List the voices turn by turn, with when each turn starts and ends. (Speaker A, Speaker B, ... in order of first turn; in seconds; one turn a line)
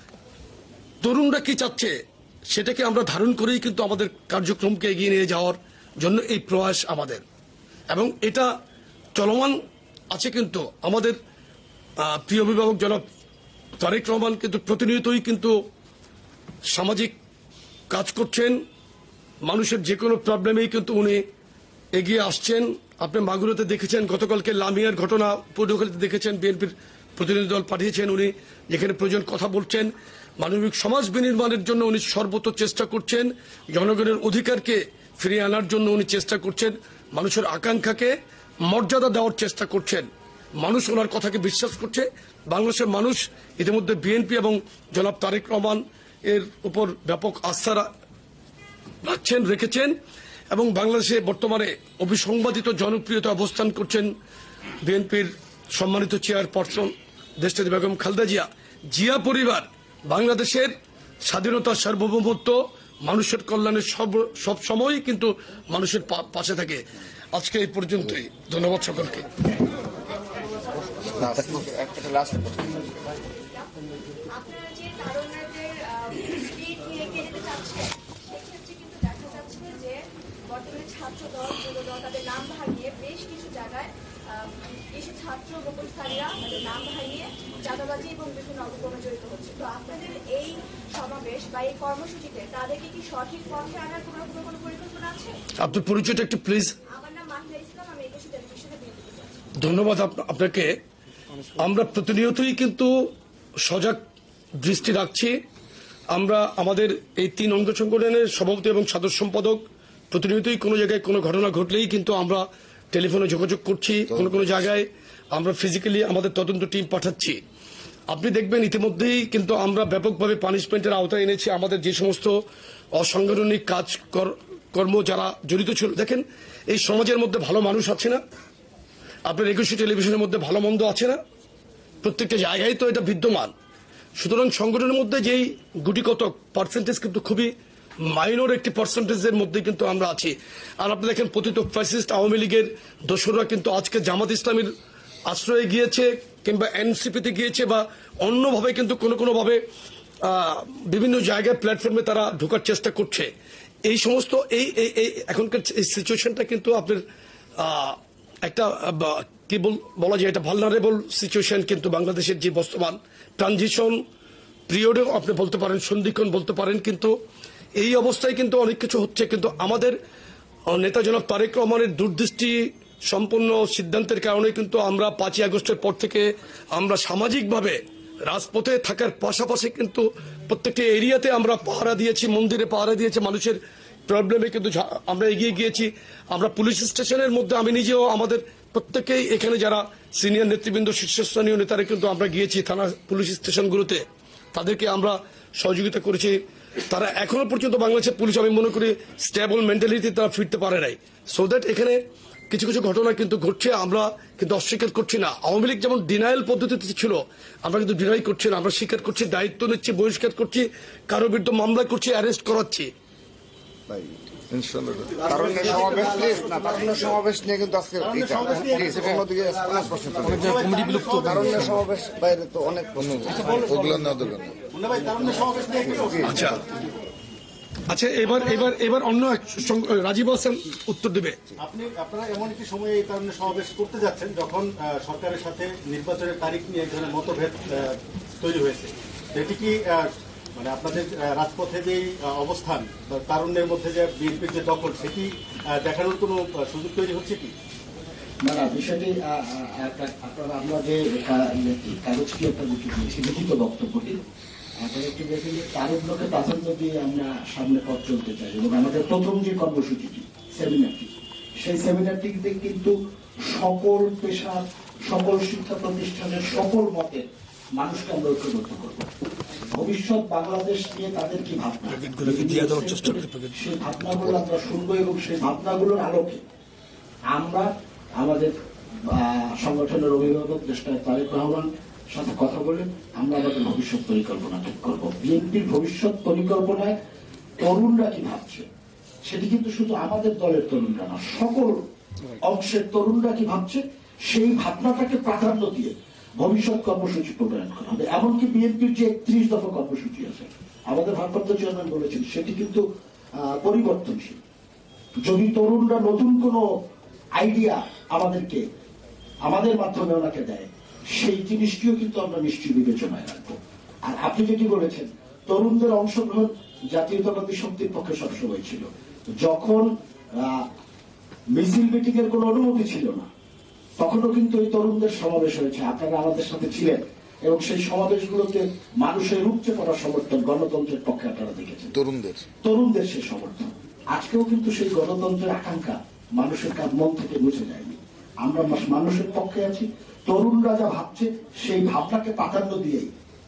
Speaker A: 1.0-1.9
Speaker A: 2.5-7.2
Speaker A: 7.9-8.5
Speaker A: 9.2-9.6
Speaker A: 10.1-11.2
Speaker A: 12.0-13.0
Speaker A: 13.8-15.6
Speaker A: 16.7-17.1
Speaker A: 17.9-18.6
Speaker A: 19.4-21.2
Speaker A: 21.9-38.1
Speaker A: 38.7-40.1
Speaker A: 40.6-47.9
Speaker A: 49.0-50.0
Speaker A: 50.5-54.1
Speaker A: 54.8-60.7
Speaker A: 61.2-66.8
Speaker A: 67.3-69.3
Speaker B: 71.1-72.9
Speaker C: 73.4-73.7
Speaker C: 74.3-95.4
Speaker A: 95.6-96.8
Speaker C: 96.9-99.5
Speaker A: 99.6-100.8
Speaker A: 101.6-103.1
Speaker A: 103.7-104.0
Speaker A: 104.6-105.3
Speaker A: 106.1-117.4
Speaker A: 118.1-122.3
Speaker A: 123.0-128.2
Speaker A: 129.3-131.2
Speaker A: 132.0-133.5
Speaker A: 134.2-137.5
Speaker A: 138.1-144.7
Speaker A: 145.3-149.6
Speaker A: 150.2-153.3
Speaker A: 153.9-157.0
Speaker A: 157.6-164.0
Speaker A: 164.7-167.1
Speaker A: 167.8-170.0
Speaker A: 170.7-212.9
Speaker B: 213.9-224.6
Speaker D: 215.2-217.2
Speaker D: 218.0-221.8
Speaker D: 223.0-226.6
Speaker A: 226.2-226.6
Speaker A: 227.9-231.4
Speaker D: 231.6-247.5
Speaker E: 248.4-254.2
Speaker E: 254.8-267.2
Speaker E: 267.8-269.1
Speaker E: 269.7-276.4
Speaker A: 271.9-273.6
Speaker E: 277.3-278.5
Speaker E: 279.1-286.9
Speaker E: 287.6-288.7
Speaker E: 289.2-291.9
Speaker E: 292.4-302.9
Speaker E: 303.4-304.4
Speaker E: 305.2-306.7
Speaker E: 307.4-308.6
Speaker E: 309.4-318.9
Speaker E: 319.4-320.7
Speaker E: 321.5-323.3
Speaker E: 324.0-331.9
Speaker B: 331.9-332.5
Speaker E: 332.6-343.1